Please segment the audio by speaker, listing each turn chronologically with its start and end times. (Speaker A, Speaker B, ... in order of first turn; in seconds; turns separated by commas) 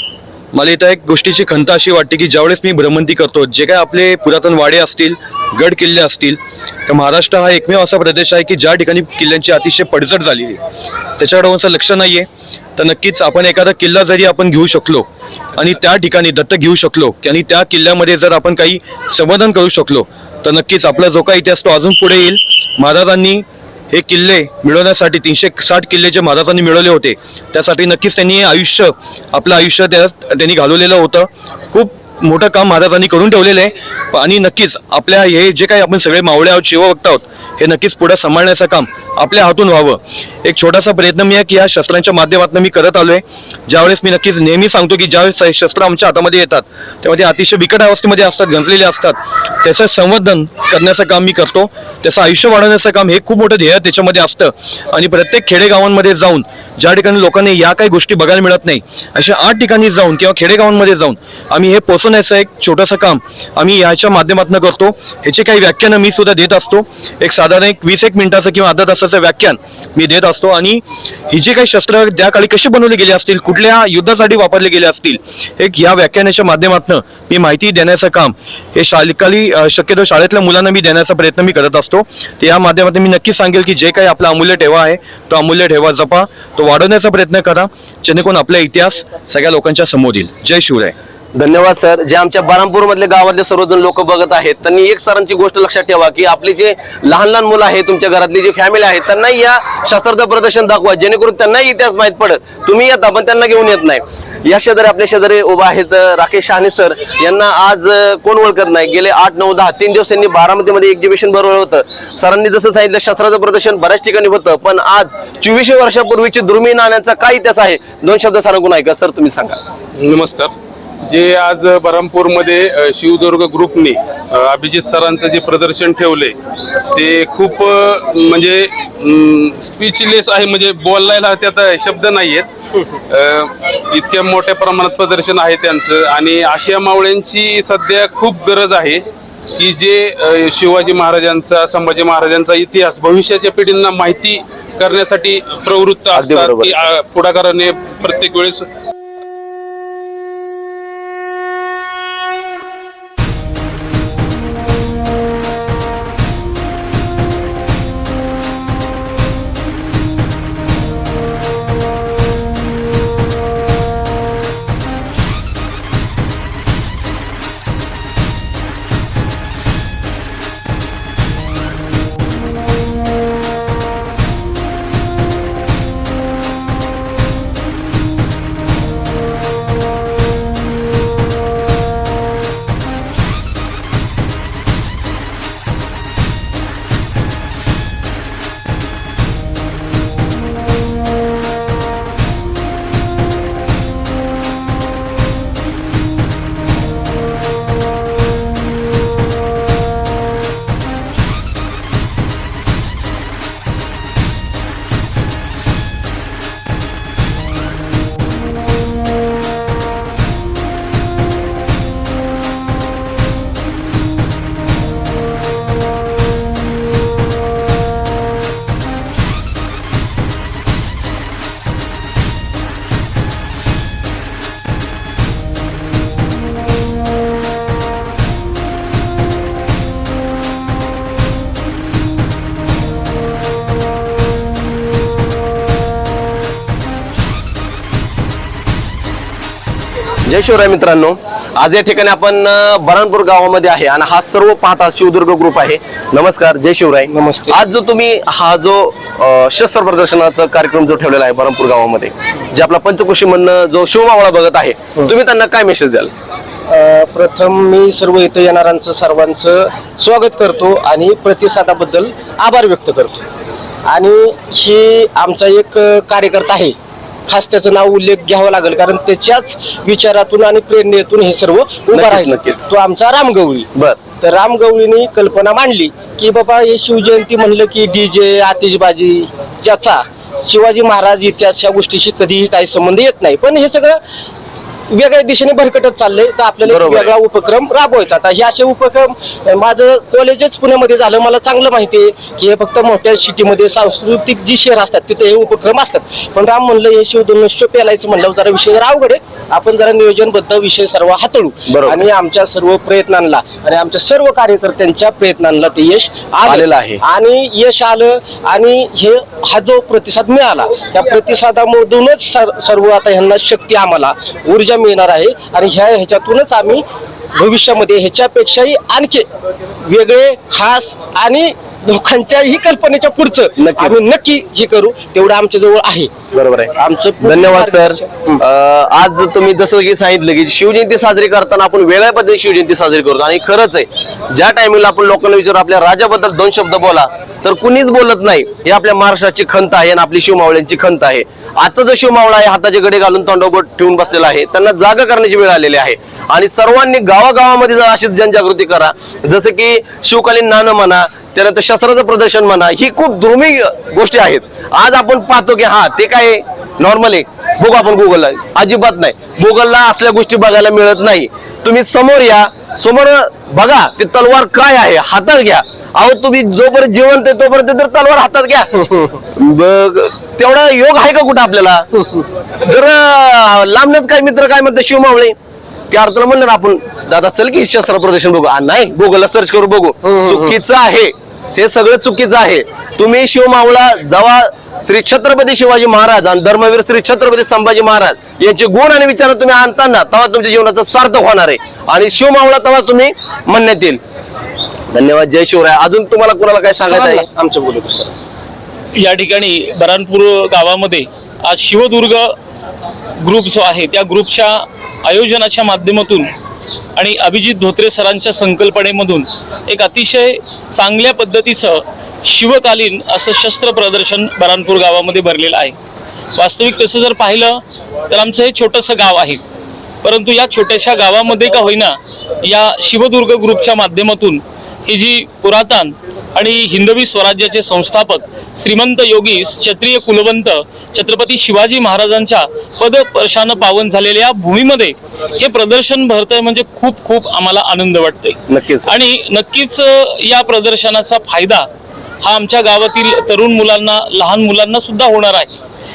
Speaker A: 0.5-10.6, Speaker A: 11.2-91.0, Speaker B: 91.3-119.6, Speaker C: 120.0-120.5, Speaker C: 121.0-126.4, Speaker C: 126.9-132.5, Speaker C: 133.1-139.1, Speaker C: 139.6-148.7, Speaker B: 146.1-146.8, Speaker B: 240.3-256.1, Speaker D: 247.1-247.6, Speaker D: 256.7-263.3, Speaker D: 263.9-266.8, Speaker D: 267.3-284.0, Speaker B: 271.9-272.6, Speaker B: 273.8-274.0, Speaker D: 284.9-316.8, Speaker B: 286.6-287.1, Speaker B: 301.7-302.1, Speaker B: 306.4-307.0, Speaker D: 317.4-319.3, Speaker D: 319.8-326.2, Speaker B: 323.6-324.0, Speaker B: 326.3-371.9, Speaker D: 326.7-328.3, Speaker B: 372.6-375.4, Speaker B: 375.9-394.0, Speaker D: 380.1-380.6, Speaker B: 394.9-397.3, Speaker D: 396.9-398.1, Speaker E: 399.0-402.3, Speaker E: 403.2-406.3, Speaker E: 407.0-415.8, Speaker E: 416.4-419.4, Speaker E: 420.0-441.7, Speaker B: 438.5-438.9, Speaker E: 442.2-445.6